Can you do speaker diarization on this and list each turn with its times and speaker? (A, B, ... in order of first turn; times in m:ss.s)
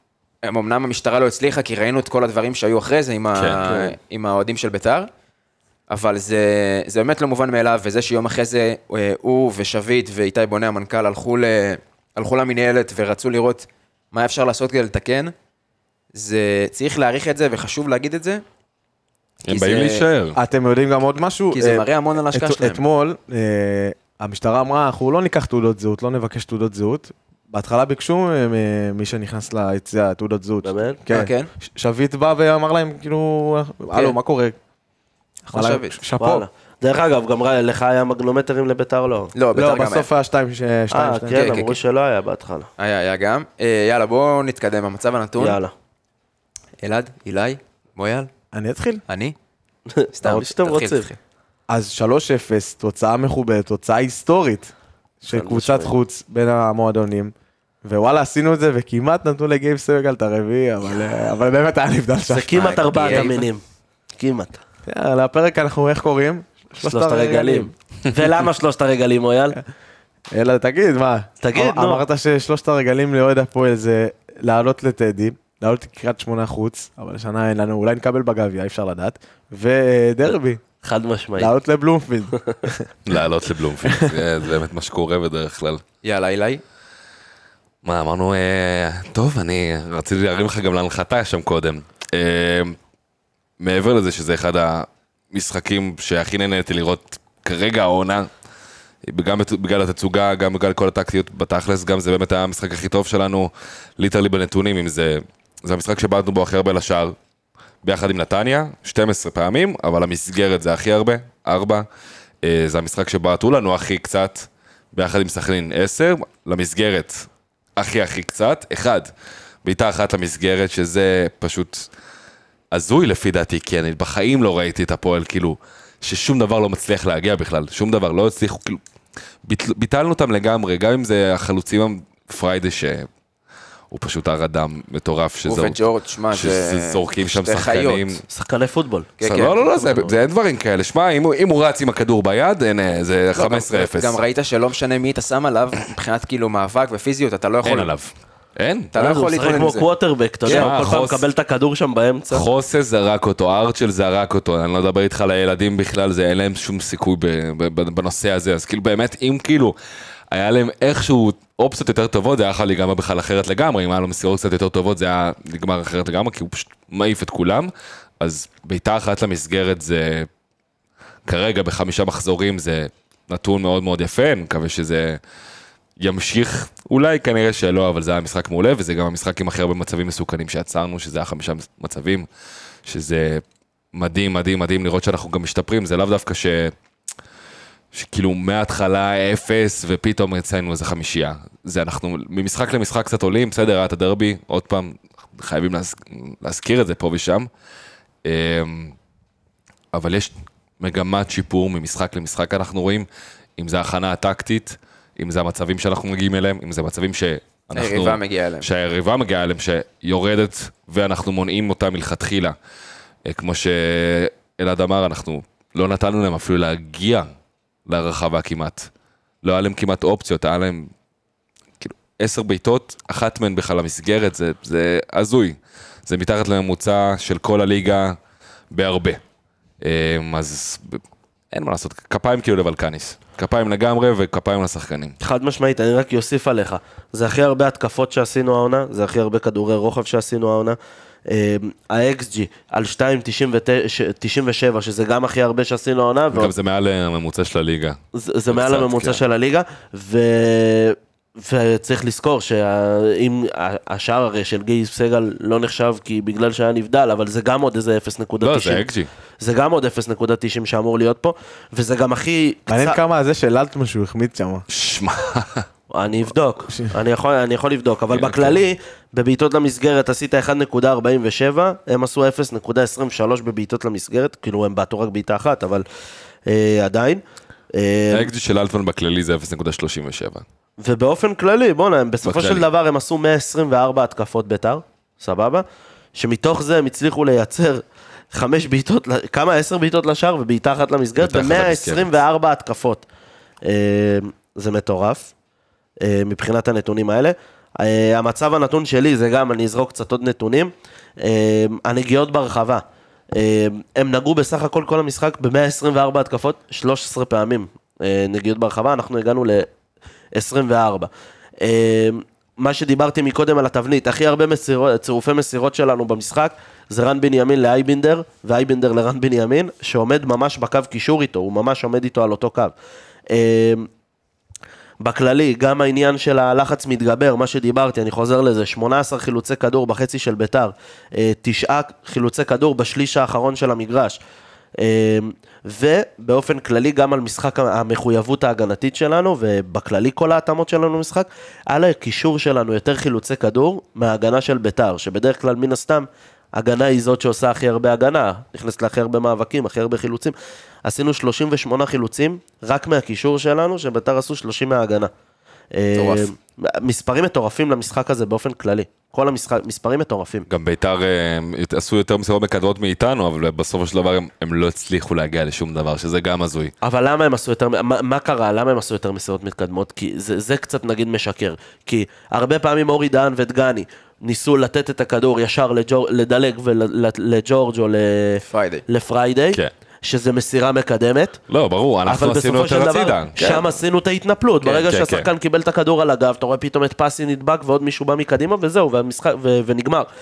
0:00.4-0:05.1 A
0:03.3-0:03.8 B
0:03.6-0:03.9 C
0:05.9-0:15.3 A
0:16.1-0:18.4 A
0:19.4-0:20.4 B
0:19.5-0:20.0 A
0:20.3-0:34.6 D
0:21.5-0:22.8 A
0:30.6-0:31.0 C
0:31.1-0:31.5 A
0:33.9-0:34.2 A
0:35.4-0:36.0 A
0:35.5-0:36.4 D
0:36.2-0:39.3 C
0:39.3-0:40.1 A
0:39.5-0:41.5 D
0:40.9-0:42.7 C
0:41.3-0:41.8 A
0:42.8-0:45.6 A
0:45.4-0:45.7 C
0:46.8-0:48.3 A
0:48.5-0:49.0 D
0:49.1-0:49.3 A
0:49.9-0:51.1 C
0:50.1-0:51.2 A
0:51.7-0:54.7 D
0:55.2-0:57.3 D
0:55.3-0:55.9 C
0:57.8-1:03.3 D
1:02.3-1:03.6 C
1:03.0-1:03.5 A
1:04.1-1:04.6 C
1:04.8-1:07.7 D
1:06.8-1:09.6 C
1:10.3-1:20.6 D
1:11.4-1:12.0 C
1:20.8-1:21.5 C
1:21.4-1:22.9 D
1:22.3-1:22.7 C
1:23.0-1:25.8 B
1:23.8-1:24.1 D
1:26.0-1:26.6 A
1:27.8-1:32.8 B
1:33.6-1:38.3 B
1:39.0-1:47.2 B
1:47.8-1:51.8 B
1:52.4-1:59.1 B
1:59.6-2:01.9 B
2:02.7-2:08.8 B
2:09.4-2:13.1 B
2:13.9-2:15.8 B
2:15.4-2:18.2 A
2:16.3-2:18.2 B
2:18.3-2:19.1 C
2:19.2-2:20.0 A
2:19.2-2:24.2 B
2:19.8-2:20.1 C
2:23.3-2:27.9 A
2:27.6-2:28.9 B
2:28.9-2:29.9 A
2:29.0-2:32.4 C
2:30.4-2:31.2 B
2:32.3-2:39.7 B
2:40.3-2:50.3 B
2:51.3-2:55.2 B
2:56.0-3:02.3 B
3:02.8-3:03.4 B
3:03.9-3:06.7 B
3:07.9-3:17.5 B
3:18.2-3:18.9 B
3:19.9-3:32.5 B
3:27.7-3:28.7 A
3:33.2-3:37.3 B
3:37.9-3:38.9 B
3:39.4-3:40.9 B
3:41.8-3:48.2 B
3:48.7-3:49.2 B
3:49.8-3:51.0 B
3:51.5-3:55.1 B
3:55.2-4:06.5 C
4:06.3-4:08.0 B
4:08.1-4:18.8 C
4:08.5-4:09.2 B
4:18.4-4:19.1 B
4:19.4-4:23.0 C
4:22.7-4:24.6 D
4:24.7-4:25.6 B
4:25.9-4:35.8 C
4:28.1-4:28.6 B
4:36.4-4:37.2 C
4:37.7-4:38.3 C
4:38.1-4:40.4 B
4:40.8-4:53.0 C
4:42.2-4:42.6 B
4:51.2-4:52.1 B
4:53.6-4:55.3 C
4:56.0-5:09.7 C
5:10.3-5:22.7 C
5:23.3-5:23.9 C
5:25.0-5:34.2 C
5:34.8-5:55.1 C
5:55.7-6:00.4 C
5:56.0-5:56.2 A
6:00.5-6:06.7 B
6:06.8-6:21.4 C
6:18.4-6:18.8 A
6:21.5-6:23.8 B
6:22.0-6:30.1 C
6:24.6-6:25.3 B